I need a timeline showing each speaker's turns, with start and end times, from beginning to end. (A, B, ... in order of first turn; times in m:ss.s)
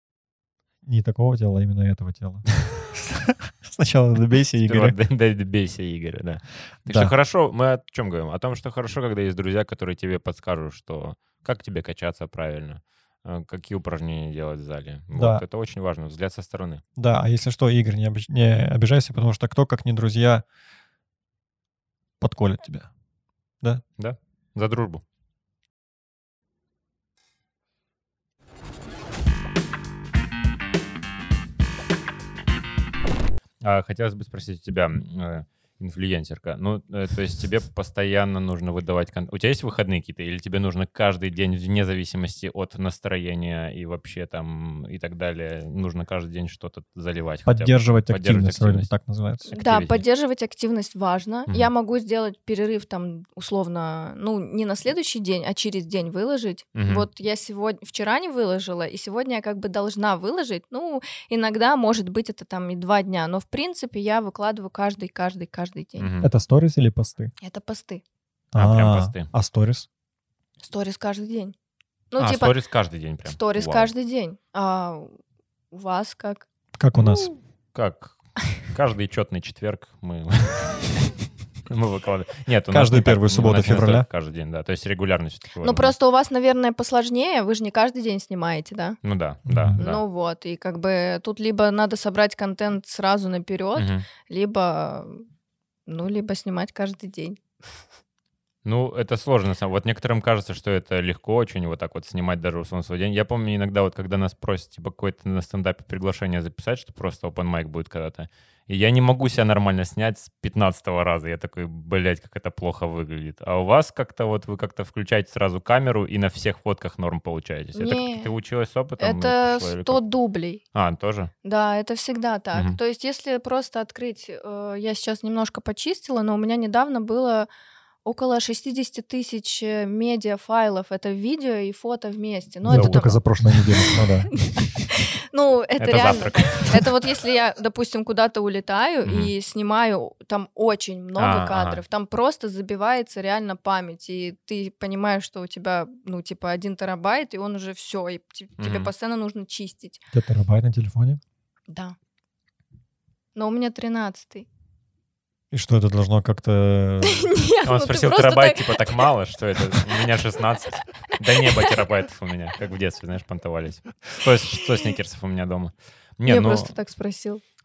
0:00.8-0:05.0 A
0:04.6-0:16.8 B
0:06.9-0:07.1 A
0:15.1-0:15.4 A
0:17.0-0:20.4 A
0:22.2-0:22.9 A
0:24.0-0:25.0 B
0:33.6-0:48.9 B
0:47.5-0:49.5 A
0:49.5-0:50.0 B
0:49.5-1:06.1 C
0:56.8-0:57.1 B
1:06.0-1:06.3 B
1:06.2-1:07.3 A
1:07.4-1:08.0 C
1:08.5-1:09.9 A
1:08.6-1:09.3 B
1:10.6-1:11.6 C
1:12.1-1:12.6 C
1:12.2-1:13.9 B
1:13.3-1:15.2 C
1:15.7-1:16.5 C
1:16.8-1:17.3 A
1:17.0-1:21.1 B
1:21.7-1:25.9 B
1:22.7-1:24.1 A
1:25.6-1:29.0 C
1:29.0-1:30.0 B
1:29.5-1:29.8 A
1:29.8-1:35.2 C
1:33.8-1:34.0 B
1:35.9-1:37.4 C
1:38.6-2:00.0 B
1:57.8-1:58.3 C
1:59.0-2:00.6 C
2:00.7-2:01.3 B
2:01.4-2:07.5 C
2:08.0-2:13.2 C
2:12.6-2:14.3 A
2:12.7-2:13.1 B
2:13.8-2:30.0 C
2:15.8-2:16.9 B
2:19.0-2:19.3 B
2:21.2-2:21.8 B
2:28.6-2:28.9 B
2:30.1-2:31.2 A
2:31.7-2:32.0 C
2:33.4-2:34.5 C
2:35.5-2:37.3 A
2:37.0-2:39.1 C
2:37.6-2:46.7 B
2:46.3-2:47.4 C